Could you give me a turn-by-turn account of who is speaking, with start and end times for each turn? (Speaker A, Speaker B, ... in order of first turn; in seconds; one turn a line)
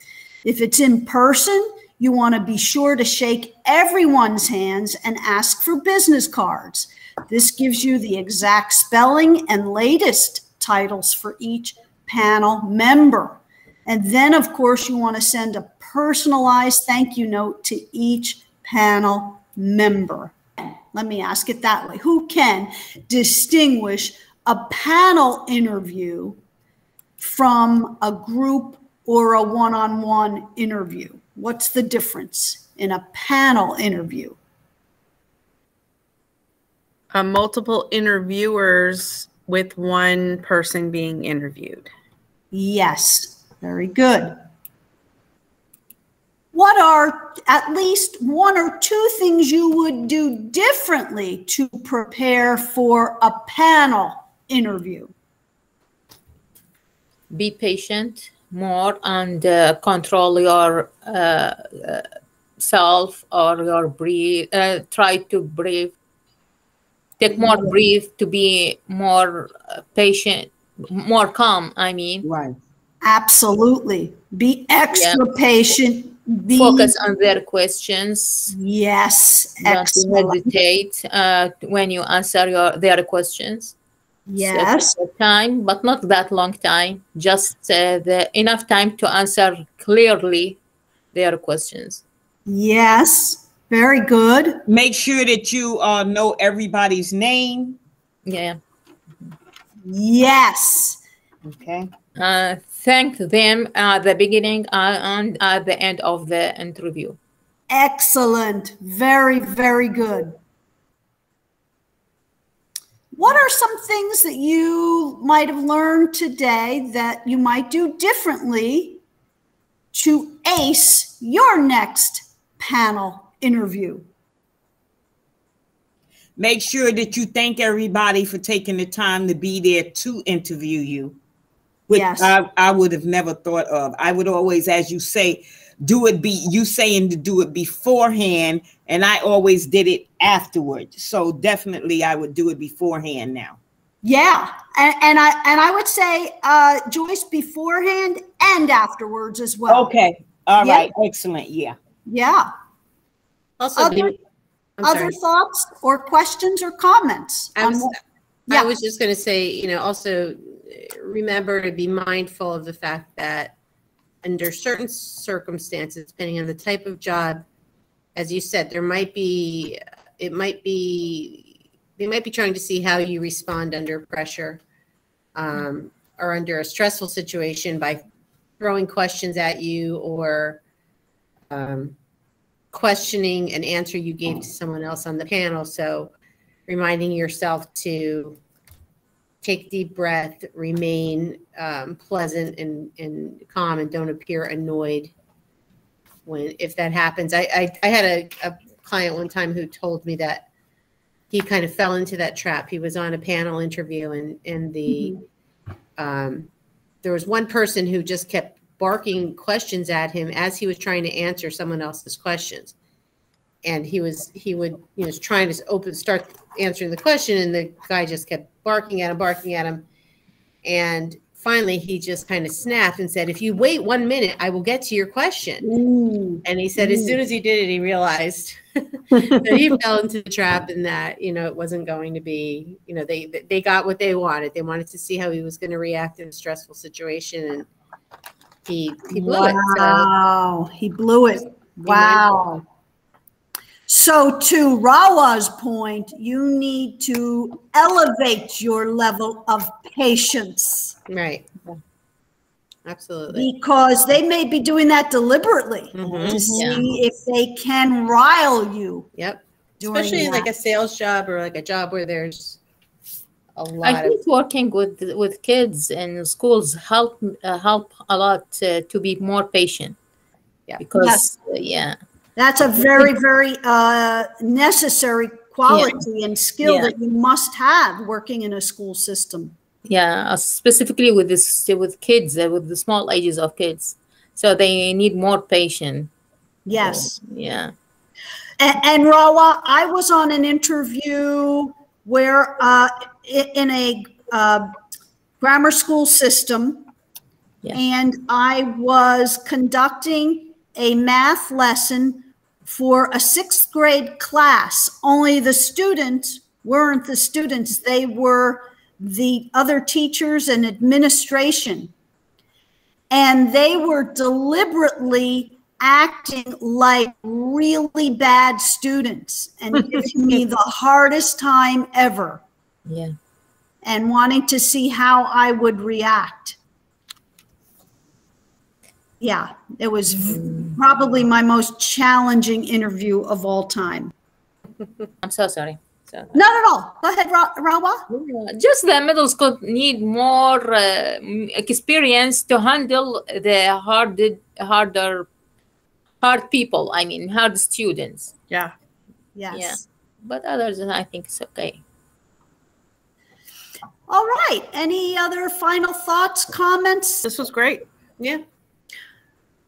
Speaker A: 0.4-20.4
Speaker A: 20.9-26.4
Speaker A: 27.2-34.4
Speaker B: 37.1-41.9
Speaker A: 42.5-44.4
Speaker A: 46.5-55.1
Speaker C: 57.3-62.1
Speaker C: 62.6-65.9
Speaker C: 67.2-72.2
Speaker D: 72.2-72.5
Speaker A: 73.0-76.9
Speaker C: 74.9-75.2
Speaker C: 76.5-78.5
Speaker A: 78.5-80.5
Speaker C: 79.6-83.8
Speaker A: 84.3-85.0
Speaker C: 84.4-90.6
Speaker C: 91.1-92.0
Speaker A: 92.5-94.6
Speaker D: 94.7-97.8
Speaker C: 98.2-98.6
Speaker A: 99.8-101.0
Speaker D: 101.5-101.9
Speaker C: 102.2-107.2
Speaker A: 107.7-110.4
Speaker A: 113.1-119.0
Speaker A: 119.9-124.1
Speaker D: 126.4-131.2
Speaker D: 131.9-143.6
Speaker A: 131.9-132.3
Speaker A: 144.0-149.9
Speaker D: 149.7-151.8
Speaker A: 150.6-150.9
Speaker A: 152.1-152.5
Speaker E: 153.6-154.2
Speaker A: 153.8-154.2
Speaker E: 154.8-155.2
Speaker A: 154.8-157.9
Speaker E: 157.6-158.0
Speaker E: 158.5-163.6
Speaker E: 164.2-167.4
Speaker E: 168.2-174.6
Speaker E: 175.3-178.0
Speaker E: 178.6-180.6
Speaker E: 181.5-181.9
Speaker E: 182.7-186.1
Speaker E: 186.7-188.4
Speaker E: 189.4-195.1
Speaker E: 196.3-200.5
Speaker E: 201.3-205.2
Speaker A: 204.9-205.2
Speaker E: 206.0-206.5
Speaker E: 207.0-212.7
Speaker E: 213.6-219.8
Speaker E: 220.6-225.7
Speaker A: 225.6-227.2
Speaker E: 226.4-237.7
Speaker B: 229.1-229.6
Speaker E: 238.7-240.1
Speaker A: 239.1-242.6
Speaker E: 241.8-242.4
Speaker A: 243.9-251.0
Speaker E: 251.1-251.8
Speaker E: 252.8-253.5
Speaker A: 253.3-259.1
Speaker E: 255.9-256.7
Speaker C: 256.5-256.8
Speaker E: 259.2-262.6
Speaker A: 259.8-260.5
Speaker E: 263.6-264.2
Speaker C: 263.8-270.0
Speaker C: 270.8-272.0
Speaker A: 271.0-271.3
Speaker A: 272.4-279.6
Speaker C: 275.7-276.0
Speaker C: 276.6-276.9
Speaker C: 279.9-286.1
Speaker A: 286.7-287.1
Speaker C: 286.8-287.7
Speaker A: 288.6-294.7
Speaker A: 295.4-296.8
Speaker A: 297.7-311.9
Speaker A: 313.1-322.4
Speaker C: 322.9-323.1
Speaker A: 323.8-326.6
Speaker A: 329.2-334.1
Speaker C: 330.4-330.7
Speaker C: 335.2-336.4
Speaker A: 336.3-338.0
Speaker C: 338.1-345.3
Speaker C: 346.2-348.3
Speaker A: 349.4-349.8
Speaker C: 349.5-351.8
Speaker A: 354.1-357.3
Speaker B: 357.2-357.9